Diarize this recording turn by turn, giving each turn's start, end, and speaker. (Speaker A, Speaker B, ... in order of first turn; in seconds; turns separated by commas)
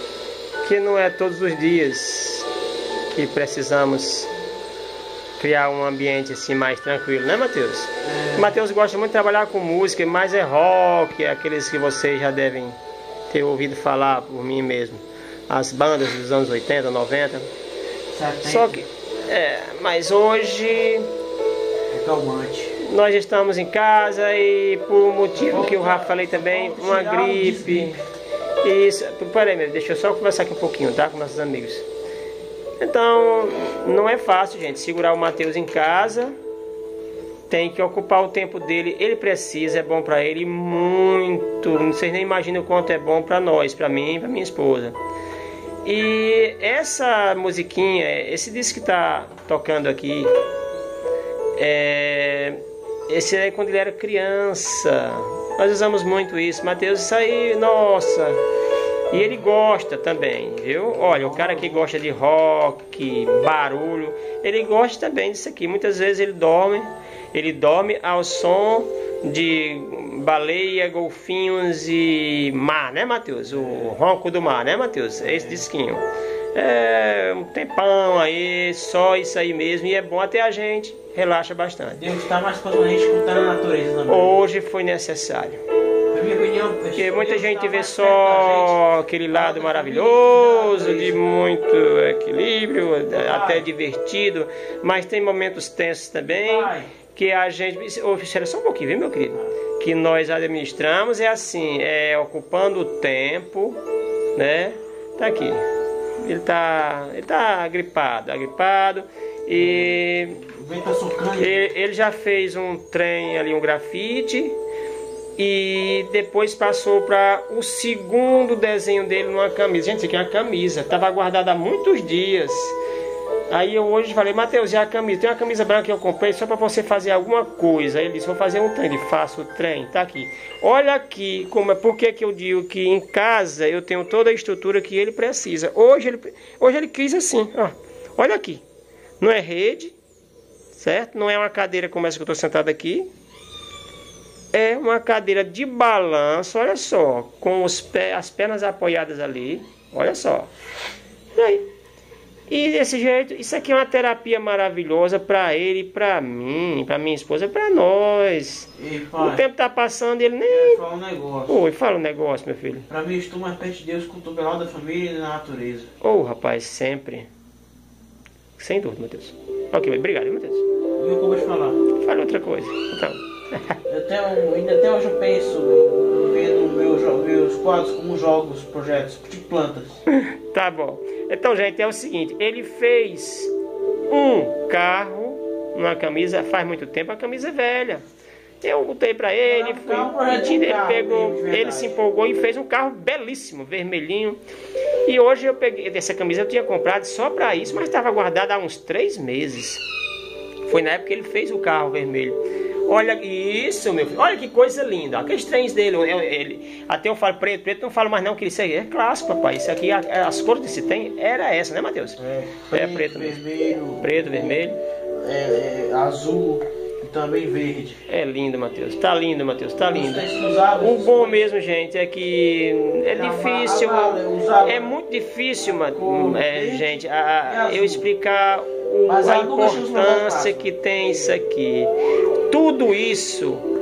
Speaker A: 0.6-2.5, Speaker A: 3.1-4.3, Speaker A: 5.4-12.8, Speaker B: 8.0-8.5, Speaker A: 13.3-17.5, Speaker B: 18.1-18.8, Speaker A: 18.4-21.1, Speaker B: 21.9-22.7, Speaker A: 22.8-28.0, Speaker B: 25.4-28.0, Speaker A: 28.6-31.9, Speaker A: 32.8-36.3, Speaker A: 37.5-45.0, Speaker A: 45.8-50.3, Speaker A: 51.5-58.4, Speaker A: 59.1-76.0, Speaker B: 60.9-61.9, Speaker B: 73.5-74.0, Speaker B: 75.2-75.6, Speaker A: 76.5-82.0, Speaker B: 82.0-84.4, Speaker A: 84.1-85.6, Speaker B: 86.1-91.2, Speaker A: 87.0-103.8, Speaker B: 93.1-93.7, Speaker B: 96.3-96.9, Speaker A: 104.3-105.6, Speaker A: 106.2-110.4, Speaker B: 109.6-111.7, Speaker A: 111.4-114.5, Speaker A: 115.4-122.8, Speaker A: 123.5-138.6, Speaker A: 139.2-139.9, Speaker A: 140.8-143.1, Speaker A: 144.5-150.5, Speaker A: 151.3-151.6, Speaker A: 152.5-160.8, Speaker B: 158.8-159.4, Speaker B: 160.5-161.5, Speaker A: 161.5-162.9, Speaker B: 162.9-165.9, Speaker A: 166.0-167.3, Speaker A: 168.6-170.6, Speaker B: 171.0-171.8, Speaker A: 172.0-173.8, Speaker B: 173.9-180.0, Speaker A: 180.1-183.5, Speaker A: 184.1-188.0, Speaker A: 188.6-194.4, Speaker B: 189.4-192.0, Speaker A: 195.1-199.8, Speaker A: 200.7-212.2, Speaker B: 212.2-214.6, Speaker A: 212.7-213.4, Speaker A: 214.0-214.8, Speaker B: 215.1-218.0, Speaker A: 218.1-220.3, Speaker B: 219.8-221.5, Speaker A: 220.8-231.9, Speaker B: 223.1-224.9, Speaker B: 225.6-228.1, Speaker B: 229.1-231.4, Speaker A: 232.5-233.7